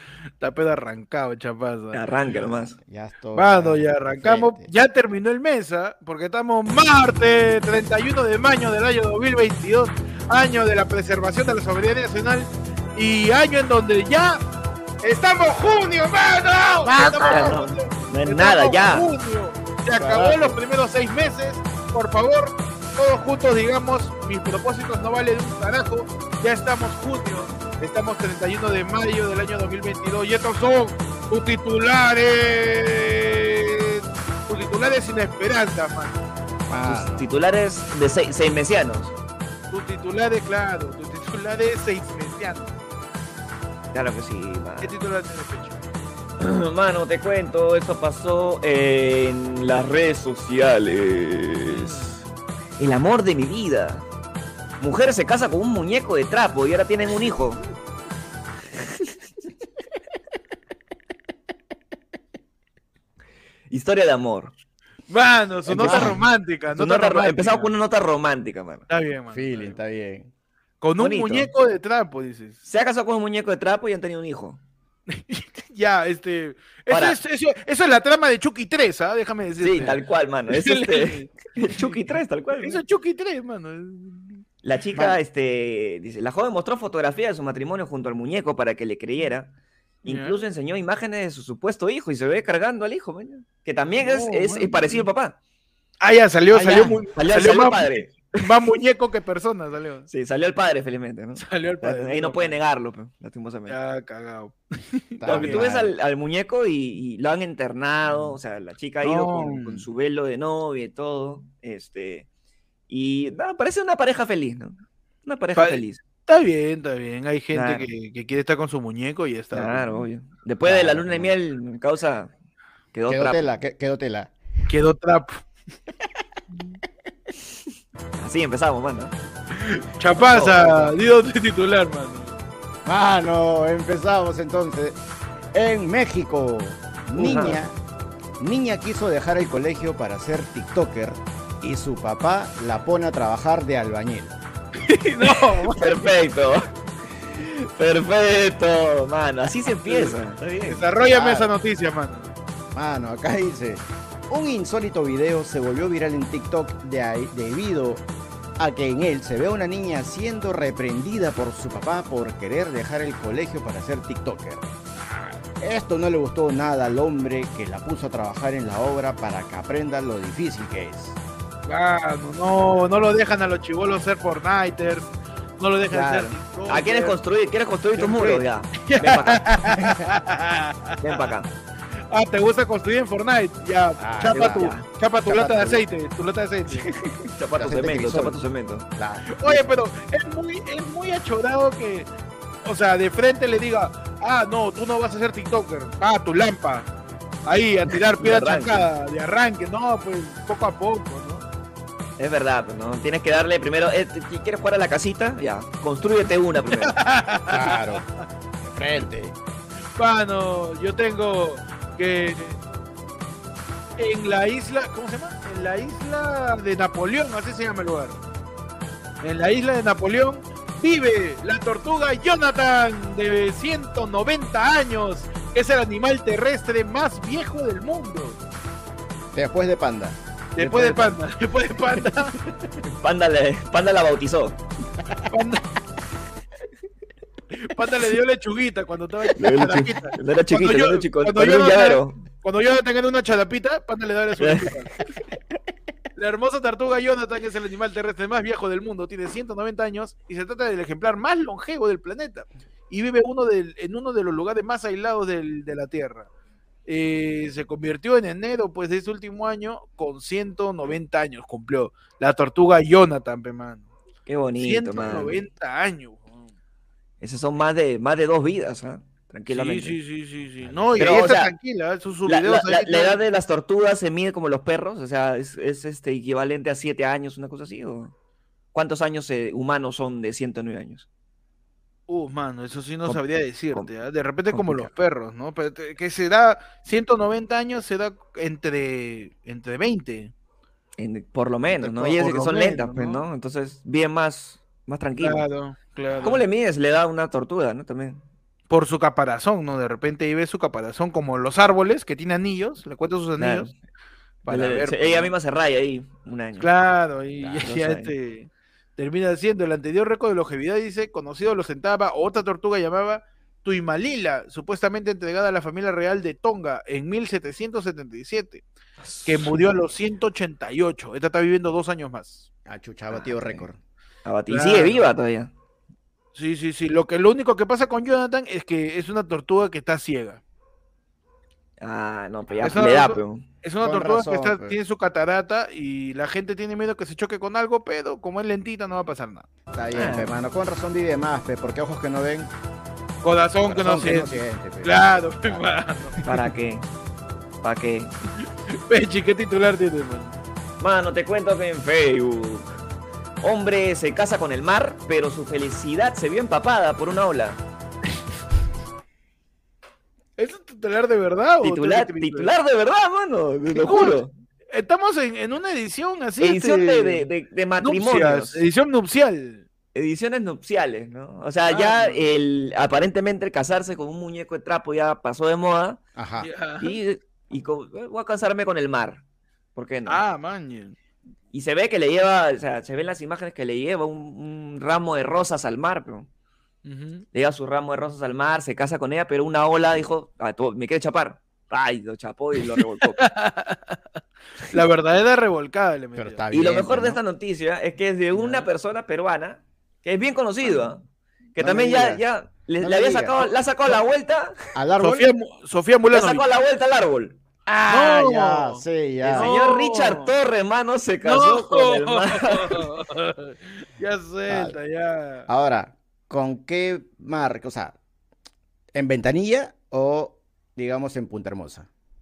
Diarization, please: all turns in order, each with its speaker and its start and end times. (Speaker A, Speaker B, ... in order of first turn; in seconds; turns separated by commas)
Speaker A: 0.4-2.3, Speaker B: 1.9-2.8, Speaker C: 2.8-4.7, Speaker A: 3.3-14.4, Speaker A: 15.0-36.2, Speaker C: 16.9-17.5, Speaker B: 17.0-19.1, Speaker C: 19.9-20.6, Speaker C: 36.7-37.3, Speaker B: 36.8-39.1, Speaker A: 39.7-42.7, Speaker B: 43.9-44.9, Speaker A: 44.8-45.8, Speaker B: 46.4-52.2, Speaker A: 51.7-52.2, Speaker B: 52.8-54.0, Speaker B: 54.8-57.6, Speaker B: 63.7-64.5, Speaker A: 65.1-67.7, Speaker B: 65.7-66.2, Speaker C: 65.7-66.2, Speaker B: 66.7-68.8, Speaker A: 68.9-69.8, Speaker C: 69.3-70.3, Speaker A: 70.8-72.6, Speaker B: 71.0-71.5, Speaker B: 72.6-74.6, Speaker A: 75.1-82.0, Speaker B: 76.9-77.2, Speaker B: 79.6-82.8, Speaker A: 82.6-84.4, Speaker B: 84.6-89.5, Speaker B: 90.0-95.3, Speaker A: 90.0-90.4, Speaker A: 94.0-95.1, Speaker A: 96.0-100.1, Speaker B: 96.5-98.4, Speaker C: 96.5-97.0, Speaker B: 100.1-103.8, Speaker A: 101.4-102.6, Speaker A: 103.7-105.7, Speaker C: 105.2-105.9, Speaker B: 105.2-112.3, Speaker A: 109.0-109.8, Speaker B: 112.9-116.0, Speaker A: 115.6-120.0, Speaker B: 117.5-117.9, Speaker B: 119.5-122.3, Speaker C: 120.6-121.3, Speaker B: 122.9-123.5, Speaker C: 123.1-124.3, Speaker A: 124.7-125.4, Speaker B: 128.2-129.1, Speaker A: 129.5-132.4, Speaker B: 130.1-130.9, Speaker C: 132.8-135.0, Speaker C: 135.5-137.8, Speaker B: 137.1-137.6, Speaker C: 138.4-144.4, Speaker A: 144.8-146.1, Speaker B: 145.2-146.7, Speaker B: 147.3-150.8, Speaker A: 149.9-152.3, Speaker C: 151.0-151.5, Speaker C: 152.7-158.1, Speaker C: 158.6-164.7, Speaker A: 165.0-165.4, Speaker C: 165.6-171.2, Speaker A: 171.7-177.2, Speaker B: 175.9-179.5, Speaker A: 178.0-181.3, Speaker B: 181.0-181.5, Speaker A: 182.1-186.9, Speaker C: 184.0-184.7, Speaker B: 184.3-184.8, Speaker C: 185.2-185.8, Speaker B: 187.3-188.9, Speaker C: 187.6-188.4, Speaker C: 188.9-189.7, Speaker A: 189.3-192.1, Speaker A: 192.6-196.9, Speaker A: 197.4-201.5, Speaker B: 198.2-198.9, Speaker B: 202.2-207.0, Speaker A: 206.7-208.0, Speaker C: 207.5-208.0, Speaker C: 208.6-209.3, Speaker A: 209.9-212.6, Speaker A: 214.0-218.2, Speaker A: 219.2-228.4, Speaker C: 229.3-230.2, Speaker A: 230.6-232.3, Speaker B: 230.6-231.2, Speaker B: 232.8-234.6, Speaker A: 235.3-235.6, Speaker A: 237.5-244.9, Speaker B: 239.3-242.2, Speaker B: 244.4-244.7, Speaker A: 246.2-256.3, Speaker A: 256.9-263.9, Speaker B: 264.2-265.4, Speaker A: 264.6-266.5, Speaker B: 267.2-270.0, Speaker A: 269.5-273.2, Speaker C: 270.6-271.2, Speaker B: 271.0-271.5, Speaker B: 272.2-278.1, Speaker B: 278.7-281.1, Speaker A: 282.1-290.3, Speaker B: 283.0-283.9, Speaker B: 284.5-284.9, Speaker B: 291.0-295.4, Speaker A: 291.7-293.3, Speaker A: 295.2-296.4, Speaker B: 296.2-298.2, Speaker A: 298.7-303.7, Speaker B: 303.4-303.7, Speaker A: 304.4-305.3, Speaker B: 304.5-306.7, Speaker A: 306.6-318.6, Speaker B: 307.4-308.1, Speaker B: 319.0-319.6, Speaker A: 319.2-322.5, Speaker C: 322.6-323.8, Speaker B: 323.1-323.6, Speaker B: 324.2-325.5, Speaker A: 324.5-325.1, Speaker A: 326.3-330.4, Speaker B: 331.8-333.4, Speaker A: 332.6-339.5, Speaker C: 333.8-334.8, Speaker C: 339.7-342.5, Speaker B: 339.9-340.3, Speaker A: 343.2-346.2, Speaker C: 343.6-345.7, Speaker B: 346.2-346.9, Speaker B: 347.6-348.1, Speaker A: 348.7-350.4, Speaker B: 350.8-352.7, Speaker B: 353.4-357.6, Speaker A: 360.4-362.5, Speaker B: 361.6-364.3, Speaker A: 363.7-367.3, Speaker B: 366.4-368.6, Speaker A: 367.8-369.6, Speaker B: 369.9-376.0, Speaker A: 371.7-372.2, Speaker C: 376.1-376.5, Speaker A: 376.4-377.0, Speaker B: 376.8-379.2, Speaker B: 379.7-380.2, Speaker A: 380.1-380.9, Speaker B: 381.5-386.3, Speaker A: 386.8-387.2, Speaker B: 387.3-393.2, Speaker A: 393.2-394.0, Speaker A: 394.7-396.4, Speaker C: 396.2-397.2, Speaker B: 396.5-401.0, Speaker B: 401.5-404.5, Speaker C: 401.6-402.2, Speaker C: 402.8-403.5, Speaker C: 404.7-405.3, Speaker A: 405.0-406.4, Speaker B: 406.1-407.4, Speaker C: 407.7-409.5, Speaker A: 407.8-410.3, Speaker B: 409.2-412.9, Speaker A: 411.2-415.5, Speaker C: 414.5-414.8, Speaker C: 415.5-418.0, Speaker C: 418.9-421.9